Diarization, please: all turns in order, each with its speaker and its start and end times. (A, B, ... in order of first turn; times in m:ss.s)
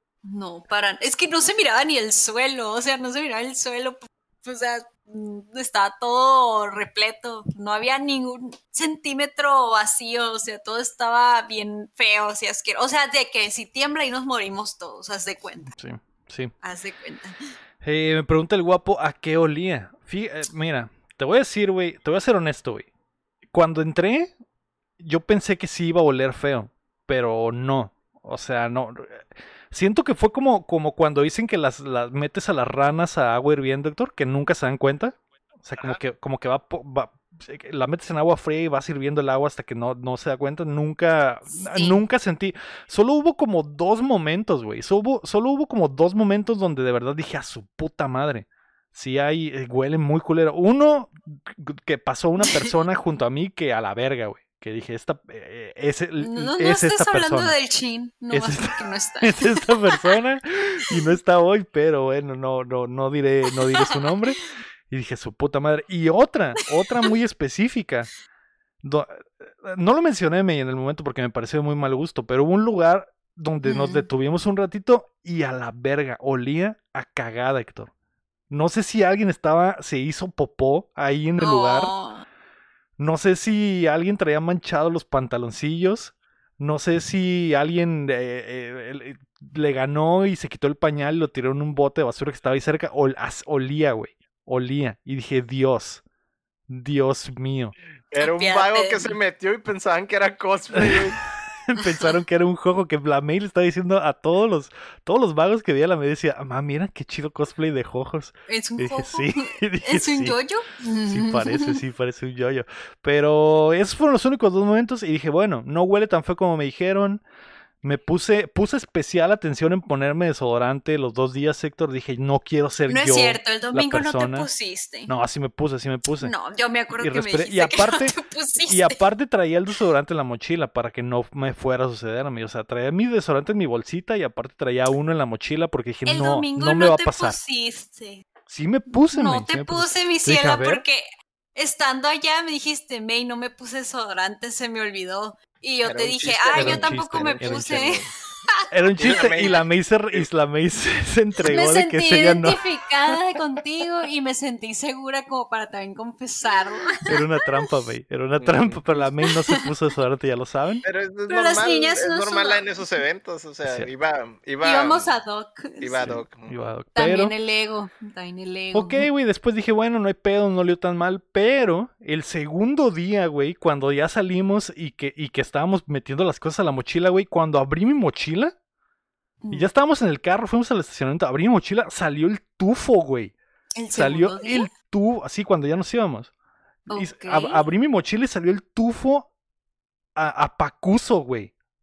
0:00.2-0:15.7 A
0:15.7-0:16.5 B
0:16.6-0:17.4 A
0:17.8-0:22.9 B
0:23.5-0:24.3 B
0:25.0-0:57.6 B
0:41.5-0:42.0 A
0:56.2-1:00.2 A
0:58.3-1:08.1 B
1:08.8-1:17.9 B
1:13.6-1:14.1 A
1:18.5-1:21.9 B
1:21.4-1:22.2 A
1:23.0-1:36.0 B
1:36.7-1:37.7 B
1:38.1-1:41.2 C
1:38.2-1:39.1 A
1:40.8-1:41.0 B
1:41.7-1:50.4 B
1:48.5-1:51.8 A
1:51.1-1:57.2 B
1:57.8-2:04.5 B
2:02.9-2:05.1 A
2:05.0-2:06.3 B
2:06.2-2:09.0 A
2:07.0-2:08.1 B
2:08.7-2:17.4 B
2:16.0-2:18.3 A
2:18.5-2:20.8 B
2:18.9-2:29.5 A
2:25.8-2:28.1 C
2:26.5-2:28.0 B
2:28.7-2:32.6 B
2:29.0-2:30.3 C
2:31.4-2:37.2 A
2:37.0-2:40.8 B
2:38.4-2:38.8 C
2:39.3-2:39.6 A
2:40.8-2:45.1 C
2:41.3-2:42.9 A
2:44.6-2:46.1 A
2:45.8-2:46.5 C
2:46.0-2:47.3 B
2:47.0-2:49.1 A
2:48.7-2:58.5 B
2:59.4-2:59.7 A
2:59.5-3:03.3 B
3:03.8-3:04.7 A
3:03.9-3:06.3 B
3:06.9-3:07.6 A
3:06.9-3:09.3 B
3:10.2-3:11.5 B